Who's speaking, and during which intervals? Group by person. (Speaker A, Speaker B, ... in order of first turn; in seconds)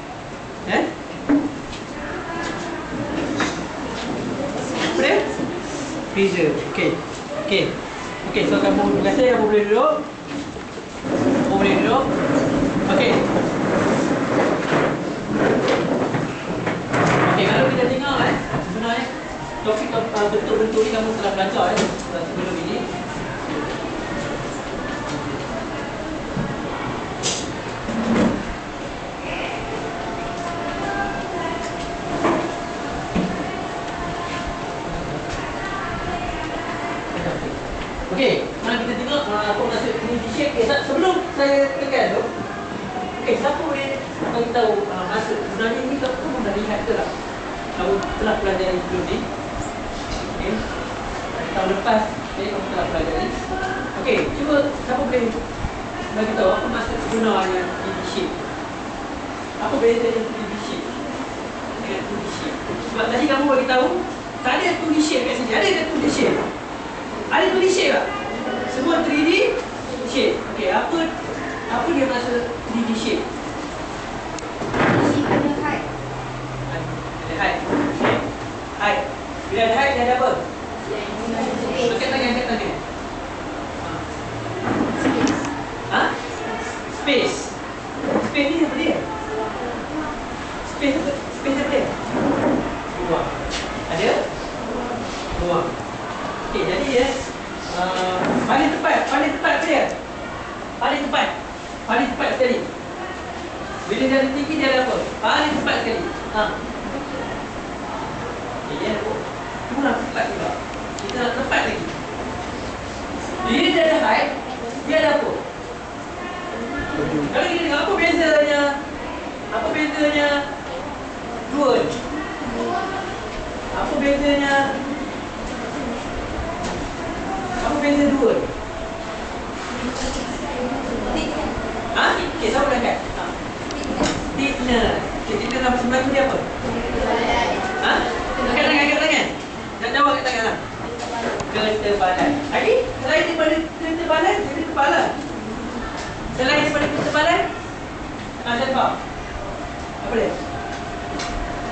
Speaker A: 0.7-0.9, 4.8-5.3, 6.1-10.1, 11.4-12.1, 12.9-13.2, 17.2-19.1, 19.6-22.9, 34.8-35.3, 37.1-42.3, 43.1-47.1, 47.8-49.2, 50.1-50.6, 51.3-53.4, 53.9-55.4, 56.1-58.5, 59.6-60.9, 61.8-66.4, 67.3-68.1, 68.6-71.1, 71.7-73.2, 76.7-78.2, 78.8-80.4, 81.7-82.8, 87.0-87.5, 88.2-89.0, 90.7-91.9, 92.9-93.3, 93.9-94.2, 95.3-95.7, 96.5-97.2, 97.7-100.0, 100.8-101.3, 101.9-102.7, 103.8-106.5, 108.6-112.0, 113.4-115.4, 117.0-118.8, 119.5-120.5, 121.4-122.0, 123.7-124.8, 127.6-128.5, 131.9-133.3, 134.2-136.5, 137.8-140.6, 141.4-145.1, 146.3-147.5, 148.4-149.0, 150.0-150.3
Speaker B: 74.8-75.8, 80.9-82.0, 136.9-137.5